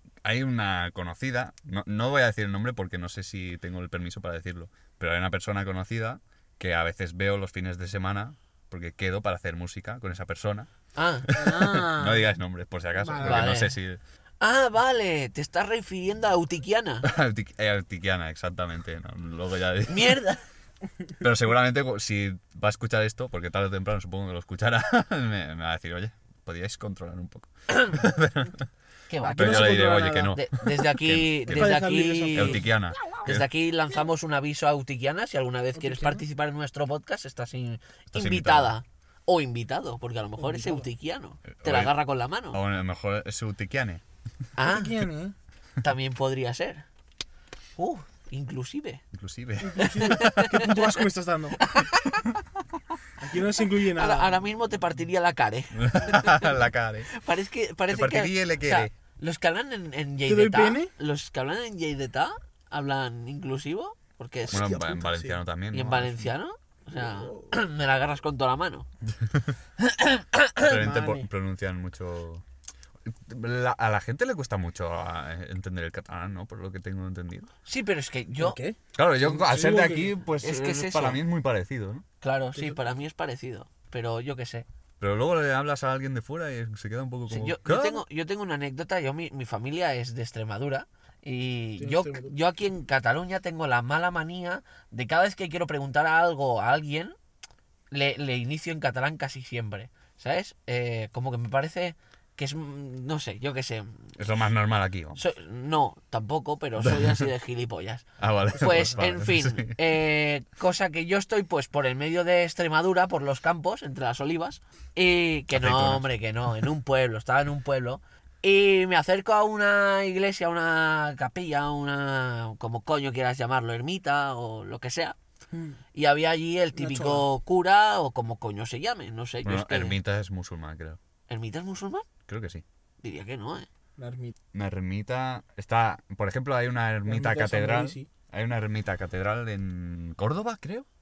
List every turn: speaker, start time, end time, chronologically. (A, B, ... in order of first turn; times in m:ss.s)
0:00.2-0:10.7 A
0:11.0-0:11.3 B
0:11.3-0:14.0 A
0:11.4-0:12.2 C
0:13.0-0:13.5 C
0:13.2-0:13.7 B
0:14.4-0:17.1 B
0:17.0-0:20.2 A
0:19.9-0:20.4 B
0:21.2-0:28.6 A
0:29.1-0:32.7 B
0:29.2-0:30.4 C
0:29.4-0:31.8 A
0:31.5-0:32.7 C
0:32.4-0:33.5 A
0:33.2-0:42.6 B
0:35.8-0:36.2 C
0:38.1-0:38.8 A
0:40.4-0:40.9 C
0:41.6-0:42.0 A
0:42.5-0:44.0 A
0:44.6-0:45.0 B
0:44.7-0:45.3 C
0:45.8-0:46.8 B
0:47.8-0:49.0 B
0:49.1-0:50.7 A
0:49.6-0:51.6 C
0:49.8-0:51.0 B
0:51.6-0:52.2 B
0:53.2-0:54.4 C
0:53.9-0:56.6 B
0:55.7-0:57.1 A
0:57.1-1:04.9 B
0:57.9-0:58.9 A
1:00.3-1:00.9 C
1:04.5-1:05.4 C
1:04.5-1:06.3 A
1:05.7-1:08.9 B
1:06.9-1:07.5 C
1:09.0-1:09.5 A
1:09.8-1:10.7 B
1:10.6-1:12.4 A
1:10.7-1:11.3 C
1:13.1-1:17.5 A
1:17.7-1:18.6 B
1:18.4-1:20.1 C
1:19.0-1:22.0 A
1:20.4-1:21.2 B
1:22.2-1:24.7 B
1:22.6-1:22.8 C
1:25.0-1:28.0 A
1:27.3-1:37.2 B
1:31.8-1:32.3 C
1:37.9-1:44.1 B
1:44.2-1:45.2 A
1:45.2-2:05.2 B
1:46.8-1:47.2 A
1:48.2-1:49.8 A
1:55.5-1:56.1 A
2:05.5-2:05.8 C
2:05.9-2:10.0 B
2:06.8-2:07.3 C
2:09.4-2:11.0 A
2:11.3-2:12.1 B
2:12.3-2:12.6 A
2:13.0-2:13.7 B
2:14.0-2:14.3 C
2:14.5-2:20.9 A
2:17.1-2:18.1 C